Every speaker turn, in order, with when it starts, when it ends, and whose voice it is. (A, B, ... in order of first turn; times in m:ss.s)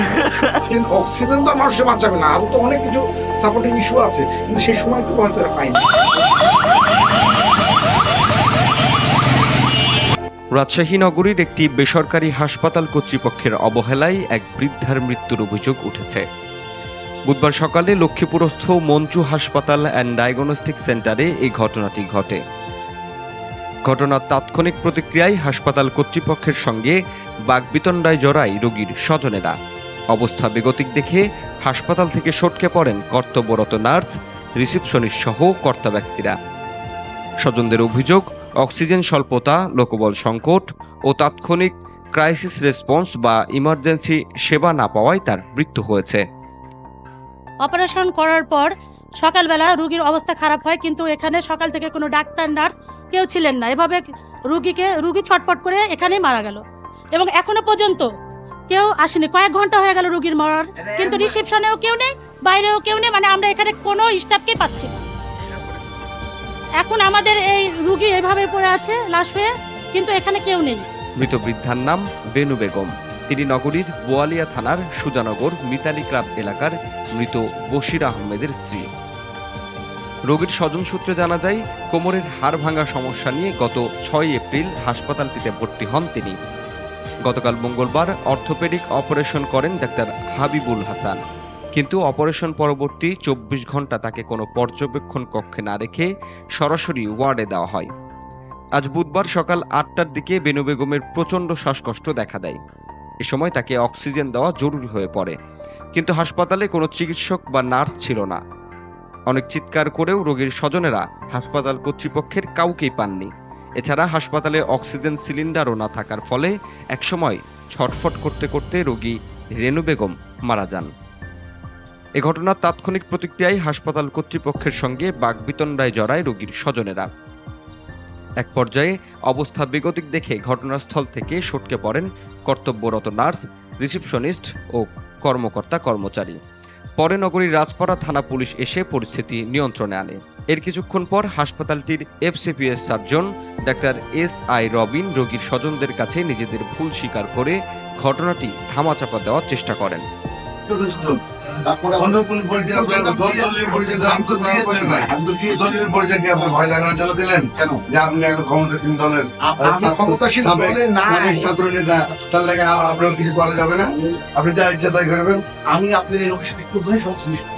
0:00.6-0:06.2 A
0:10.5-0:16.2 B
0:17.3-0:22.4 B
0:23.9-0:27.0 B
0:27.5-0:29.6 B
0:30.1-0:36.4 B
0:37.4-0:46.2 B
0:47.6-0:56.6 C
0:57.1-0:58.0 C
0:58.7-1:04.9 C
1:06.8-1:10.8 C
1:11.2-1:18.8 B
1:20.3-1:26.4 B
1:27.2-1:31.2 B
1:31.8-1:37.9 B
1:38.8-1:42.6 B
1:43.2-1:45.3 B
1:46.0-1:48.4 B
1:49.3-2:00.9 B
2:02.2-2:07.1 B
2:08.4-2:16.4 B
2:17.0-2:30.0 B
2:30.7-2:31.2 D
2:31.7-2:32.1 A
2:31.9-2:47.1 D
2:32.7-2:36.0 A
2:39.5-2:41.5 A
2:45.8-2:47.4 A